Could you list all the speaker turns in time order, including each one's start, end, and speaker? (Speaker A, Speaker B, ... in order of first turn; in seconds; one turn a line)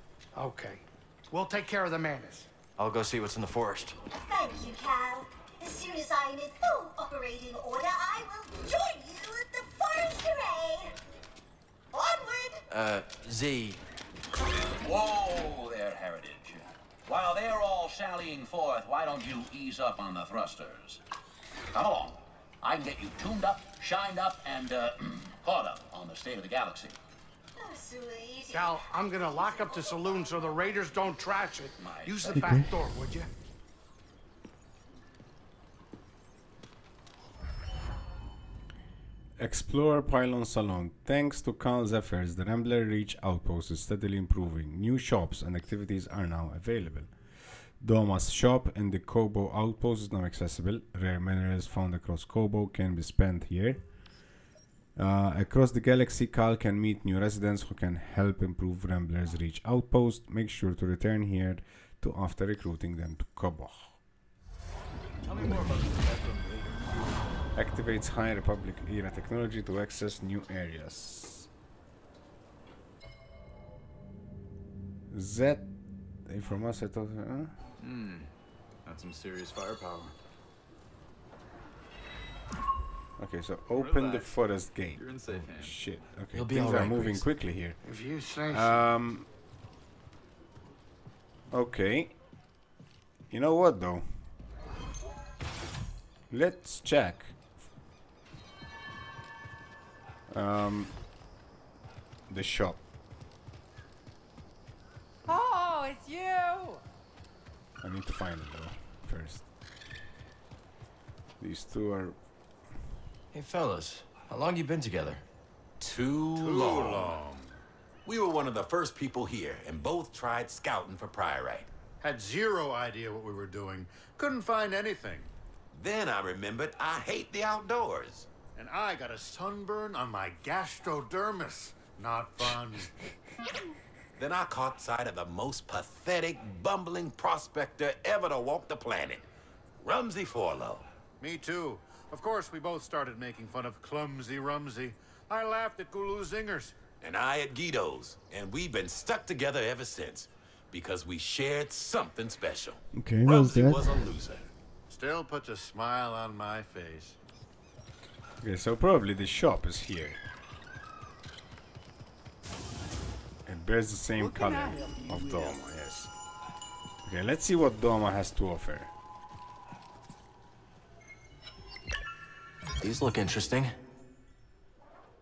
Speaker A: 0.3-2.5
Speaker B: 2.8-4.0
Speaker C: 4.2-11.0
Speaker C: 11.9-12.6
Speaker B: 12.7-13.8
Speaker D: 14.8-21.0
Speaker D: 21.7-27.0
Speaker C: 27.6-30.3
Speaker A: 28.5-33.3
Speaker D: 31.8-32.5
Speaker E: 39.4-47.1
Speaker E: 47.8-53.8
Speaker E: 55.0-64.0
Speaker F: 65.3-66.6
Speaker E: 67.5-71.5
Speaker E: 75.1-75.7
Speaker E: 76.2-77.5
Speaker F: 77.8-78.3
Speaker F: 78.9-80.1
Speaker E: 83.2-87.8
Speaker F: 83.7-84.3
Speaker F: 85.0-85.8
Speaker B: 86.3-87.2
Speaker A: 87.8-88.9
Speaker E: 88.5-89.3
Speaker E: 91.5-92.1
Speaker E: 93.3-94.1
Speaker E: 96.3-97.4
Speaker E: 100.3-100.9
Speaker E: 102.3-102.8
Speaker G: 105.3-106.8
Speaker E: 107.8-109.5
Speaker E: 111.4-112.2
Speaker B: 113.3-115.2
Speaker H: 115.8-117.2
Speaker I: 116.3-117.6
Speaker H: 118.0-121.7
Speaker I: 122.0-125.3
Speaker H: 125.7-128.3
Speaker I: 128.6-132.9
Speaker H: 134.2-139.3
Speaker H: 139.8-140.8
Speaker I: 141.2-146.8
Speaker H: 147.0-154.5
Speaker E: 152.9-154.0
Speaker I: 154.9-157.2
Speaker E: 158.4-160.2
Speaker E: 163.5-166.1
Speaker G: 164.2-165.6
Speaker E: 167.0-168.9
Speaker B: 172.8-173.8